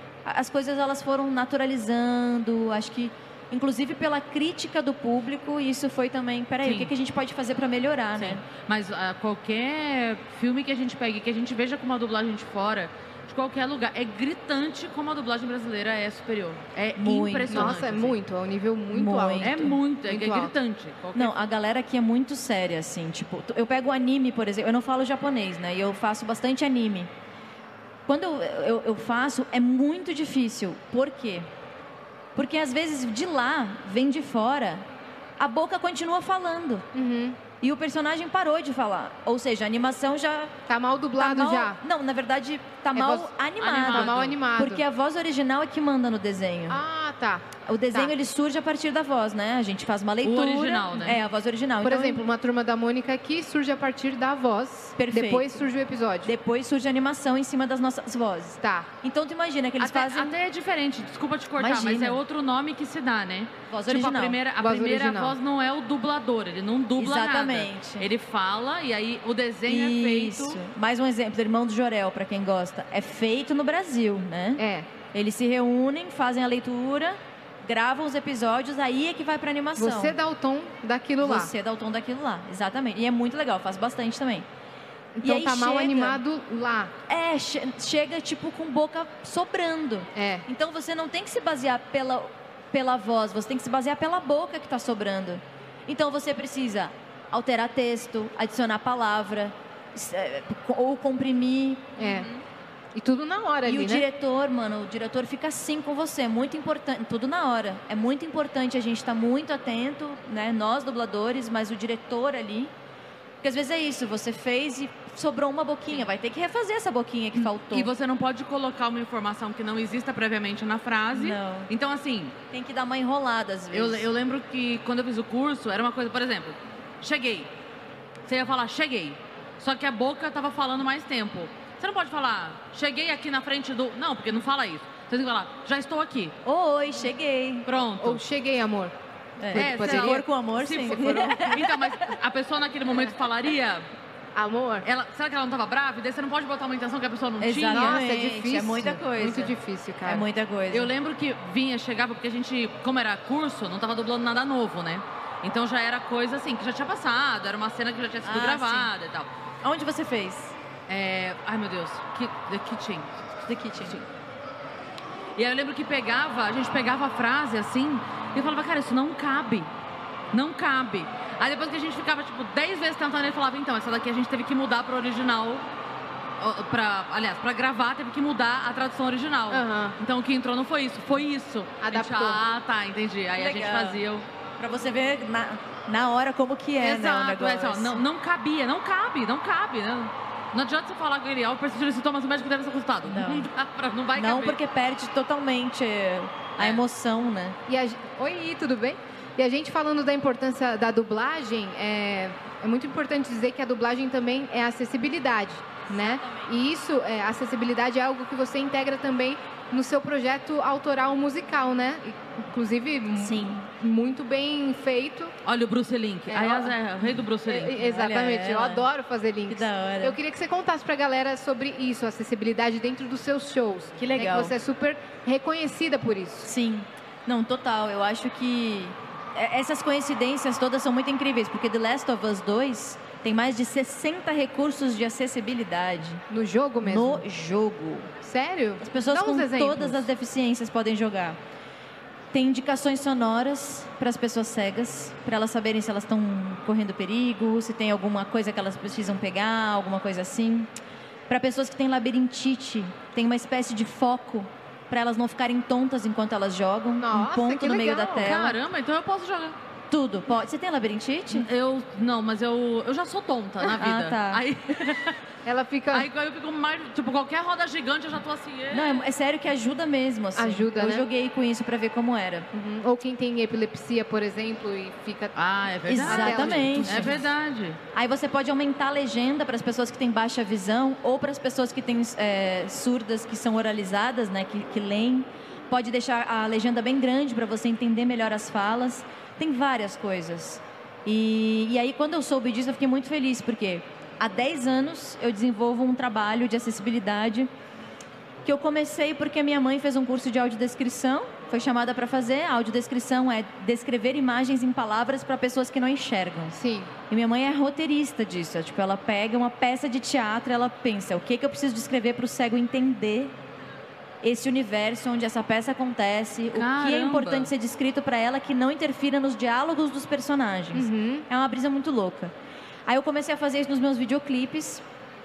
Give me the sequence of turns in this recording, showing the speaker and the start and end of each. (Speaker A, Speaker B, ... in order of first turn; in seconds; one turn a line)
Speaker A: 0.2-8.4
Speaker B: 6.6-6.9
Speaker B: 8.1-18.1
Speaker A: 17.0-17.7
Speaker C: 17.5-20.5
Speaker A: 18.9-19.8
Speaker B: 19.4-21.4
Speaker A: 21.1-27.1
Speaker A: 28.1-31.5
Speaker A: 32.4-34.8
Speaker A: 35.4-36.9
Speaker C: 36.9-37.4
Speaker A: 37.6-40.5
Speaker C: 40.7-41.8
Speaker A: 41.2-46.8
Speaker C: 42.9-43.3
Speaker B: 43.6-44.4
Speaker C: 43.8-44.8
Speaker C: 46.7-48.1
Speaker A: 47.7-52.2
Speaker B: 50.2-51.2
Speaker C: 51.8-56.3
Speaker A: 55.0-55.6
Speaker A: 56.2-60.3
Speaker C: 58.6-58.9
Speaker B: 59.8-70.6
Speaker A: 61.6-62.2
Speaker A: 63.7-64.4
Speaker C: 64.6-65.3
Speaker A: 67.0-68.1
Speaker A: 69.7-74.6
Speaker C: 74.6-74.9
Speaker A: 75.1-80.2
Speaker C: 79.8-81.5
Speaker A: 81.2-84.5
Speaker C: 85.2-86.9
Speaker A: 85.2-86.2
Speaker A: 87.1-102.0
Speaker C: 90.1-90.5
Speaker C: 102.0-102.3
Speaker B: 102.1-102.4
Speaker C: 102.9-104.0
Speaker A: 103.7-112.7
Speaker A: 113.4-117.9
Speaker B: 117.4-122.3
Speaker A: 121.1-121.7
Speaker A: 122.5-124.1
Speaker B: 123.7-127.5
Speaker B: 128.2-136.3
Speaker A: 136.4-137.7
Speaker B: 137.7-138.2
Speaker C: 138.0-138.9
Speaker A: 139.4-142.0
Speaker C: 139.5-140.2
Speaker B: 139.5-143.9
Speaker C: 144.3-144.8
Speaker B: 144.8-148.0
Speaker A: 147.4-149.5
Speaker C: 147.7-150.2
Speaker A: 150.0-150.9
Speaker B: 150.7-159.3
Speaker A: 158.2-158.9
Speaker A: 159.6-160.5
Speaker B: 160.9-163.1
Speaker A: 163.4-164.0
Speaker B: 165.4-169.7
Speaker B: 170.3-175.6
Speaker B: 176.4-184.2
Speaker C: 179.5-179.9
Speaker C: 181.8-182.4
Speaker A: 183.4-184.0
Speaker A: 184.6-188.0
Speaker B: 186.8-194.6
Speaker A: 193.1-193.5
Speaker A: 194.2-197.6
Speaker B: 196.6-196.8
Speaker C: 197.7-215.3
Speaker A: 205.9-206.5
Speaker A: 213.2-213.6
Speaker B: 215.4-217.9
Speaker C: 216.3-216.8
Speaker C: 217.4-226.5
Speaker A: 217.8-218.8
Speaker A: 219.5-220.2
Speaker A: 224.1-224.5
Speaker A: 226.4-236.2
Speaker C: 236.3-237.2
Speaker A: 236.8-238.1
Speaker C: 238.2-240.1
Speaker A: 238.8-241.4
Speaker A: 242.3-250.7
Speaker A: 251.3-258.6
Speaker C: 257.0-258.3
Speaker B: 258.2-259.6
Speaker A: 259.9-261.5
Speaker B: 261.3-265.2
Speaker A: 263.7-264.4
Speaker C: 265.4-266.1
Speaker B: 265.9-269.1
Speaker A: 268.7-272.5
Speaker C: 270.4-271.1
Speaker C: 272.5-275.3
Speaker B: 275.3-277.8
Speaker A: 275.9-277.2
Speaker C: 276.0-277.3
Speaker A: 277.9-297.5
Speaker A: 298.4-306.6
Speaker C: 306.5-306.9
Speaker A: 307.1-313.3
Speaker A: 314.2-322.3
Speaker B: 316.5-317.5
Speaker C: 320.7-321.3
Speaker A: 322.9-324.8